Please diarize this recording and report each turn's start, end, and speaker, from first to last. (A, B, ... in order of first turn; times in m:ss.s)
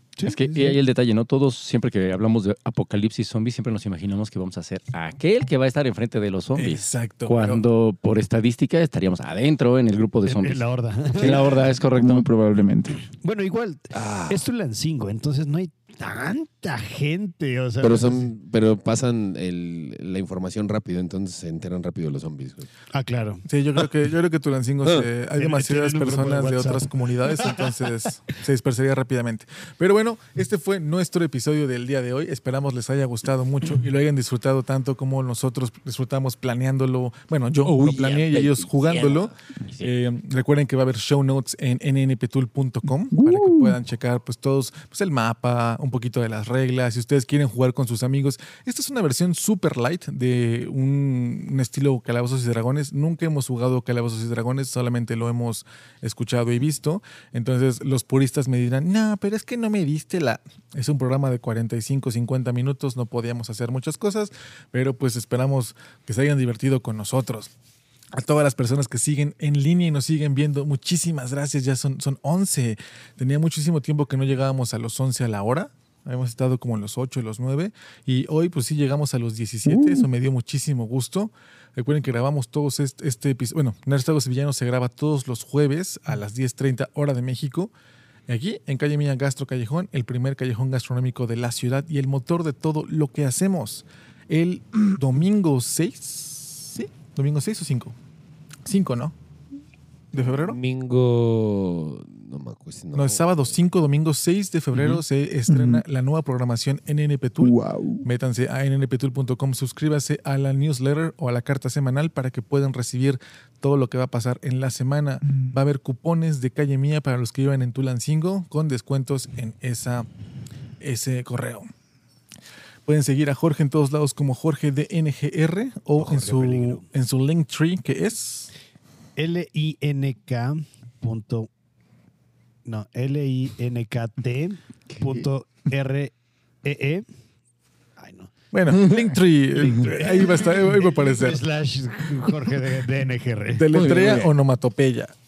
0:00.2-0:00.8 A
0:00.2-0:12.3 B
0:06.6-0:07.6 C
0:10.3-0:11.6 A
0:11.9-0:13.0 D
0:13.2-0:18.3 A
0:13.9-0:14.4 E
0:17.8-0:22.7 E
0:22.9-0:23.4 A
0:23.5-1:07.5 C
0:25.4-0:27.7 A
0:37.6-0:39.3 E
0:43.1-0:43.8 D
1:08.1-1:27.7 C
1:19.7-1:20.0 D
1:28.3-1:38.0 C
1:38.7-1:39.2 C
1:40.1-1:40.6 C
1:40.2-1:43.5 E
1:42.9-2:00.1 C
1:45.5-1:45.8 D
1:47.4-1:48.1 D
2:00.8-2:01.7 C
2:02.9-2:08.5 C
2:06.0-2:06.8 A
2:09.2-2:11.5 A
2:12.6-2:16.1 A
2:14.9-2:15.3 D
2:16.6-2:17.1 A
2:18.0-2:18.3 A
2:18.5-2:21.4 C
2:19.5-2:24.2 A
2:23.6-2:25.1 C
2:23.7-2:24.3 D